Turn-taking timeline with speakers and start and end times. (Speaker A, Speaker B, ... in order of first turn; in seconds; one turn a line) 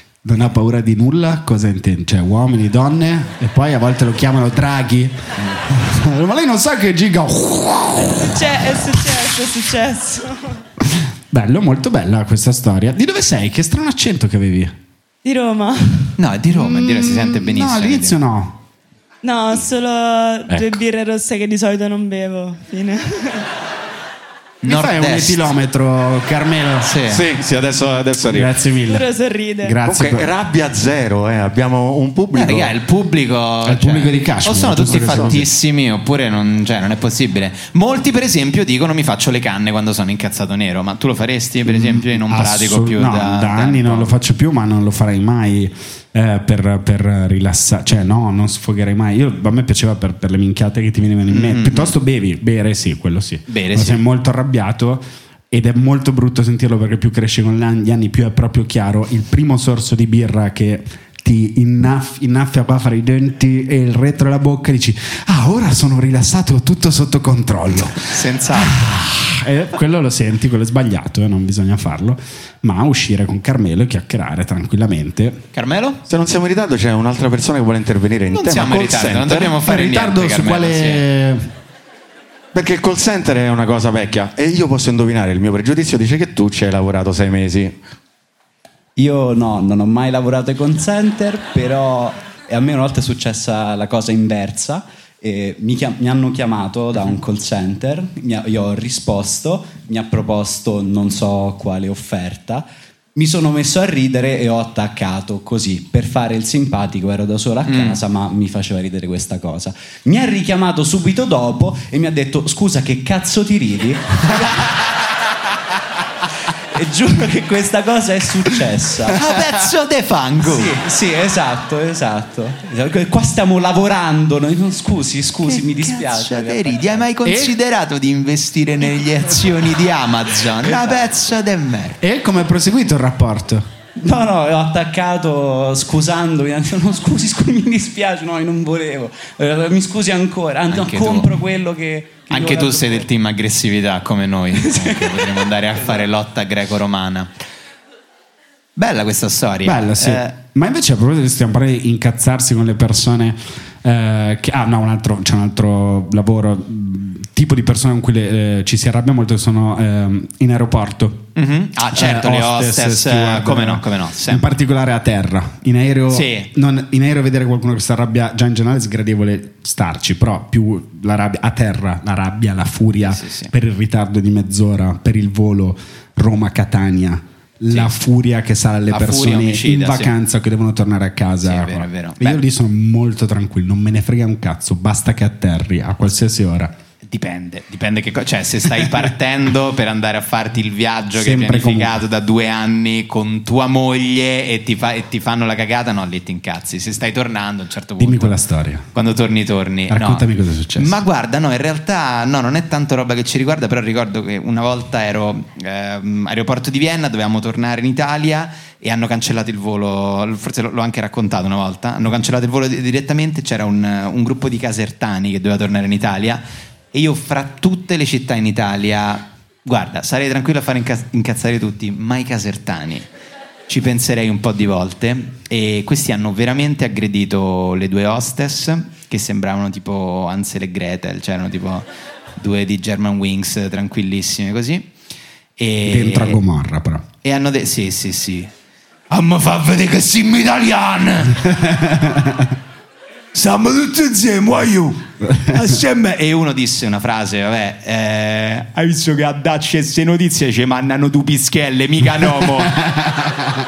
Speaker A: 0.2-9.0
Speaker B: 8.2-10.6
Speaker A: 10.8-14.7
Speaker B: 15.2-16.1
Speaker C: 16.2-18.2
Speaker A: 16.5-18.6
Speaker B: 19.2-23.5
Speaker D: 20.5-20.7
Speaker C: 24.6-25.5
Speaker A: 24.6-26.9
Speaker C: 26.8-27.2
Speaker D: 27.1-28.6
Speaker A: 28.3-29.1
Speaker B: 28.9-29.8
Speaker A: 29.6-30.3
Speaker D: 29.9-32.7
Speaker C: 32.3-44.1
Speaker A: 33.6-35.5
Speaker A: 41.7-75.4
Speaker C: 51.3-51.9
Speaker C: 53.5-54.0
Speaker C: 68.0-69.0
Speaker C: 75.5-76.0
Speaker D: 76.1-79.5
Speaker C: 78.3-81.0
Speaker A: 79.6-81.5
Speaker D: 82.5-87.8
Speaker E: 89.0-114.3
Speaker C: 107.7-108.0
Speaker E: 116.7-119.2
Speaker C: 119.1-120.8
Speaker E: 120.4-127.1
Speaker C: 125.4-132.0
Speaker A: 127.2-127.5
Speaker E: 130.6-131.0
Speaker A: 132.0-133.7
Speaker E: 134.0-143.1
Speaker C: 140.7-141.3
Speaker C: 142.3-147.3
Speaker C: 148.8-150.3
Speaker A: 149.6-161.3
Speaker C: 161.3-164.4
Speaker A: 161.9-186.7
Speaker C: 166.1-166.5
Speaker C: 173.0-173.5
Speaker C: 178.9-180.1
Speaker C: 181.4-182.4
Speaker C: 187.0-198.3
Speaker A: 191.1-192.0
Speaker A: 198.0-198.9
Speaker C: 198.9-200.2
Speaker A: 199.9-200.9
Speaker C: 200.8-223.1
Speaker C: 223.7-234.9
Speaker C: 235.6-236.4
Speaker A: 235.8-237.0
Speaker C: 237.2-238.5
Speaker A: 241.4-242.5
Speaker A: 245.2-245.8
Speaker C: 245.5-252.8
Speaker A: 252.8-253.3